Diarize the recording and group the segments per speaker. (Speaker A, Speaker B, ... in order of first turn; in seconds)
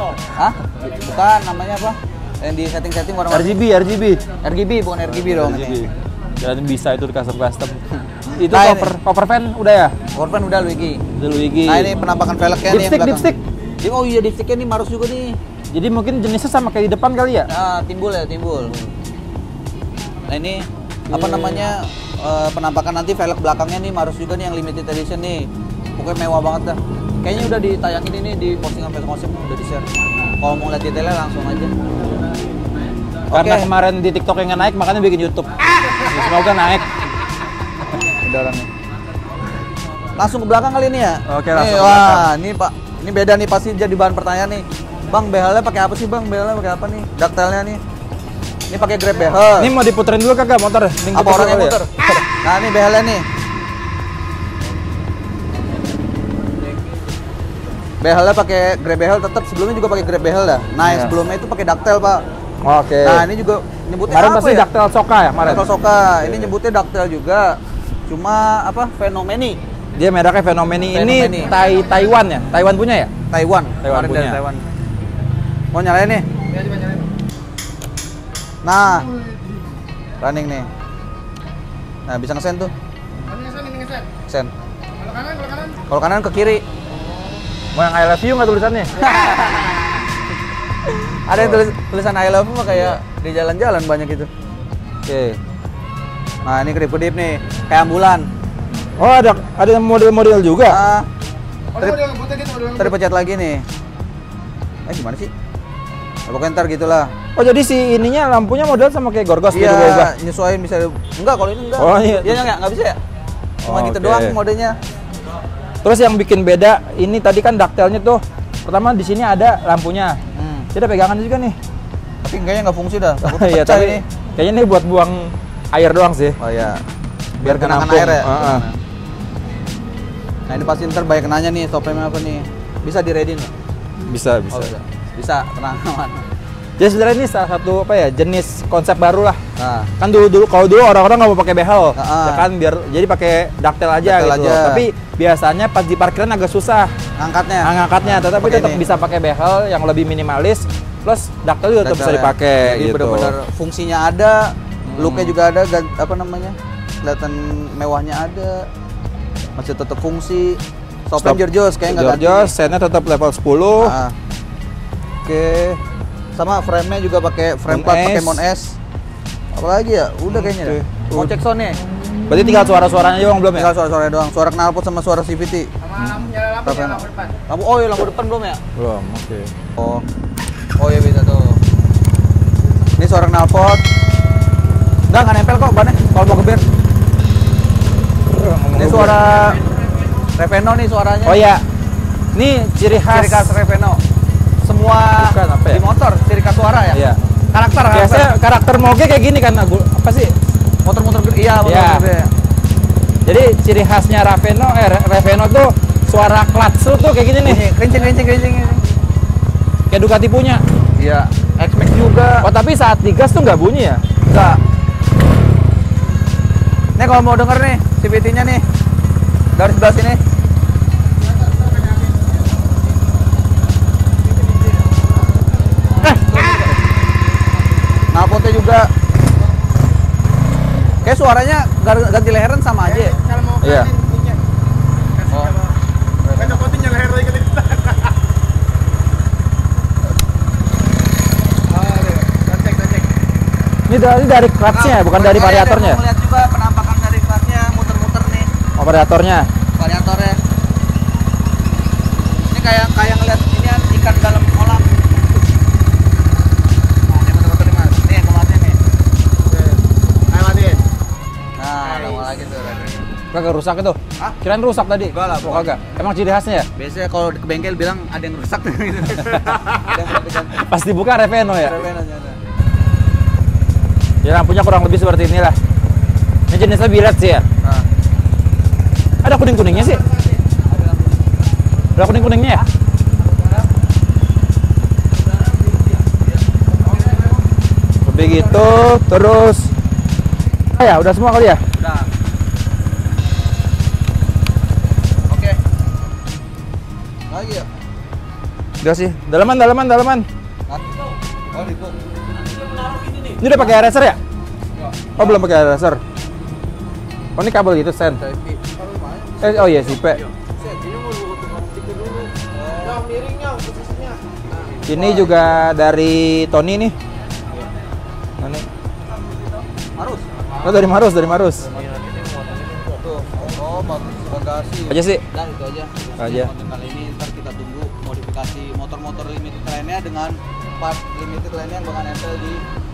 Speaker A: 0.3-3.5, 4.4-5.9, 8.3-8.9, 10.2-11.0, 11.7-15.4, 17.5-18.8, 20.3-29.9, 30.4-31.7, 33.3-33.7, 38.0-38.7, 40.2-47.8, 48.7-49.7, 51.1-53.3, 58.0-62.2, 63.0-64.7, 65.4-69.6, 70.9-71.5, 73.3-74.6, 75.7-76.3, 78.6-79.1, 80.2-80.7, 82.1-82.7, 85.9-86.6, 89.0-90.0, 91.1-94.3, 96.5-98.3, 100.7-101.1, 102.8-103.7, 104.9-105.3, 106.3-107.1, 109.5-113.0, 113.7-114.8, 120.3-120.7, 122.2-124.0, 126.4-126.8, 127.4-128.8, 130.5-133.5, 134.5-136.2, 139.6-139.9, 142.0-142.4, 144.0-144.8, 147.2-148.8, 151.8-158.7, 159.6-162.5, 163.8-164.2, 166.3-168.8, 169.6-171.8, 173.5-175.7, 176.6-178.6, 179.8-180.0, 180.8-181.6, 183.0-183.8, 185.1-186.6, 188.8-189.6, 190.4-191.4, 193.1-194.0, 194.6-198.3, 200.8-202.3, 207.4-208.8, 211.0-212.5, 214.3-214.6, 217.0-218.7, 219.6-220.2, 226.0-226.7, 228.1-228.9, 231.0-233.2, 235.3-235.6, 236.2-236.8, 244.7-248.5, 249.8-250.4, 252.5-255.2, 257.1-258.8, 261.6-263.0, 265.1-265.8, 266.8-270.7, 271.5-272.4, 291.8-292.1, 295.3-295.6, 297.3-297.7, 301.5-302.0, 303.0-303.7, 305.2-305.4, 308.2-310.3, 312.4-313.1, 314.7-315.5, 320.0-320.3, 322.9-332.6
Speaker B: 3.3-4.2, 5.1-7.8, 8.4-9.9, 11.2-11.9, 12.7-13.4, 15.7-17.5, 21.1-21.7, 33.3-37.0, 41.3-42.3, 49.6-52.2, 60.8-61.1, 62.6-63.3, 64.1-66.5, 70.0-73.1, 73.8-74.4, 87.7-88.9, 91.4-91.6, 92.7-93.0, 95.1-95.4, 99.0-100.8, 107.4-110.1, 111.8-112.5, 113.6-114.4, 115.8-120.2, 120.7-121.6, 123.2-126.4, 127.4-128.7, 134.1-134.7, 136.8-139.4, 140.0-146.9, 147.6-153.3, 154.9-155.4, 161.2-164.0, 165.2-165.8, 167.7-168.4, 170.3-171.3, 172.3-173.7, 176.0-176.3, 178.8-179.5, 188.3-189.2, 191.3-191.6, 192.3-193.6, 195.2-195.8, 196.9-197.2, 197.9-200.3, 201.6-202.1, 203.2-207.6, 209.9-210.6, 212.4-214.0, 226.1-226.4, 233.6-233.9, 243.9-246.0, 248.8-249.5, 263.3-266.7, 269.3-269.7, 270.6-271.8, 274.2-275.6, 276.5-277.5, 279.2-280.1, 282.0-282.6, 288.0-289.7, 290.8-291.6, 298.8-300.3, 303.4-304.2, 305.2-306.0, 307.4-308.2, 309.4-310.2, 314.9-316.9, 318.4-318.7, 320.6-321.7, 324.9-325.2, 326.2-326.5
Speaker C: 71.5-72.0, 76.5-77.1, 83.2-84.1, 84.9-85.8, 101.8-103.0, 175.8-177.3, 221.4-222.2, 232.9-234.4, 235.2-235.7, 236.3-238.1, 241.7-243.1, 259.5-260.8, 262.0-262.3, 310.7-312.3, 312.8-314.8